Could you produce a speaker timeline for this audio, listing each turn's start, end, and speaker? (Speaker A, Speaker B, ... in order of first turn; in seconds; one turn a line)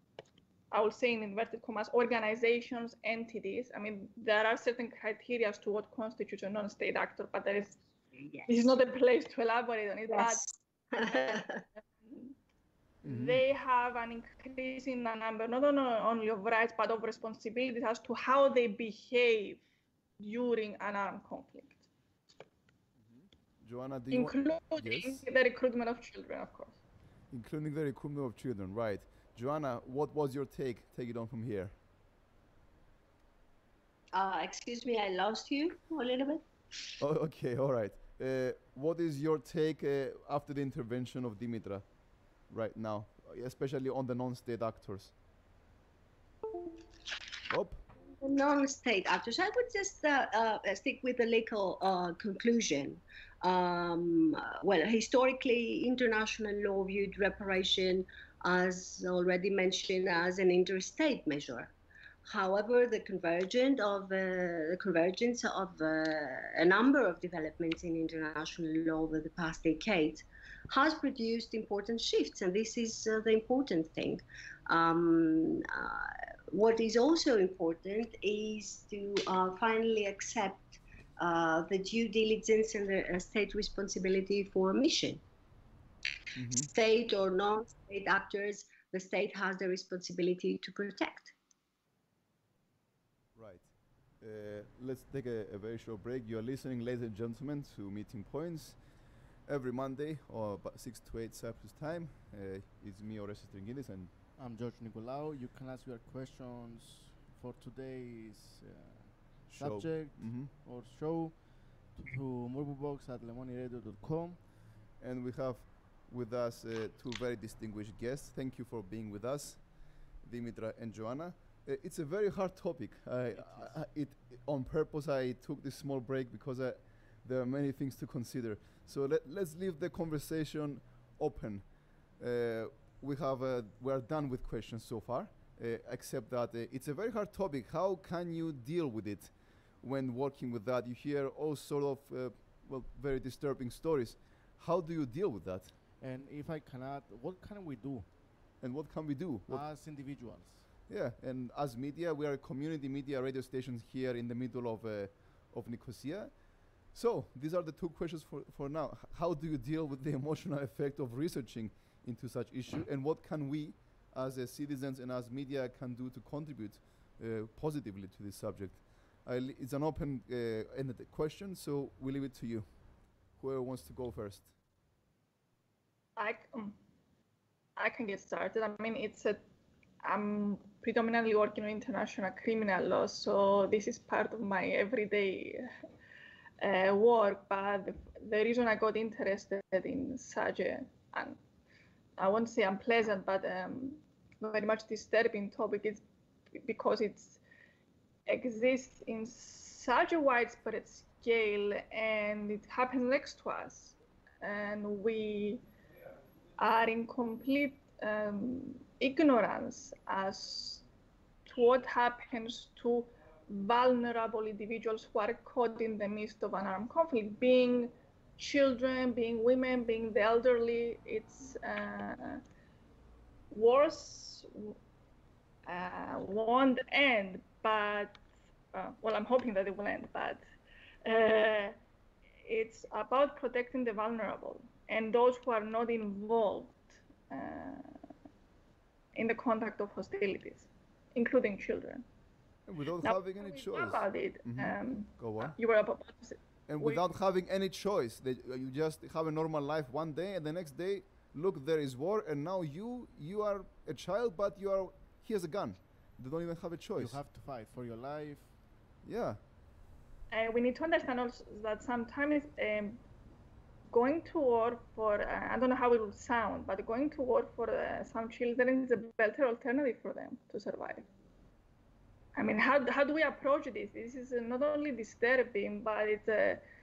Speaker A: 0.7-7.8
Speaker B: 8.1-8.7
Speaker A: 8.5-10.4
Speaker B: 10.1-11.6
Speaker A: 11.0-11.3
Speaker A: 12.0-12.3
Speaker C: 13.0-13.4
Speaker A: 13.0-19.6
Speaker A: 20.2-21.8
Speaker C: 23.0-25.2
Speaker A: 24.1-26.8
Speaker C: 27.3-31.7
Speaker B: 34.1-36.5
Speaker C: 37.0-41.8
Speaker C: 42.5-45.1
Speaker C: 47.5-47.8
Speaker B: 48.2-61.7
Speaker B: 62.3-85.2
Speaker C: 86.4-86.7
Speaker B: 86.6-91.3
Speaker C: 93.3-93.7
Speaker C: 94.2-98.8
Speaker C: 99.5-104.1
Speaker D: 104.4-114.4
Speaker C: 109.5-110.5
Speaker C: 115.0-119.7
Speaker C: 120.2-131.7
Speaker D: 123.3-123.8
Speaker C: 132.2-145.8
Speaker D: 146.0-148.1
Speaker C: 148.6-149.7
Speaker D: 149.5-150.7
Speaker C: 150.9-172.7
Speaker C: 173.4-174.5
Speaker A: 176.2-176.8
Speaker A: 177.8-179.4
Speaker A: 180.0-185.7
Speaker A: 186.6-191.4
Speaker A: 192.2-197.4
Speaker A: 198.3-205.6
Speaker A: 206.6-210.8
Speaker A: 211.5-222.4
Speaker A: 223.5-224.8
Speaker A: 225.7-228.2
Speaker A: 228.7-230.4
Speaker A: 231.1-231.8
Speaker A: 232.5-238.0
Speaker A: 239.2-242.1
Speaker C: 242.7-245.6
Speaker A: 243.0-247.0
Speaker C: 246.7-257.2
Speaker D: 257.0-258.6
Speaker C: 259.0-259.4
Speaker A: 260.3-263.0
Speaker A: 263.9-271.1
Speaker A: 272.4-276.6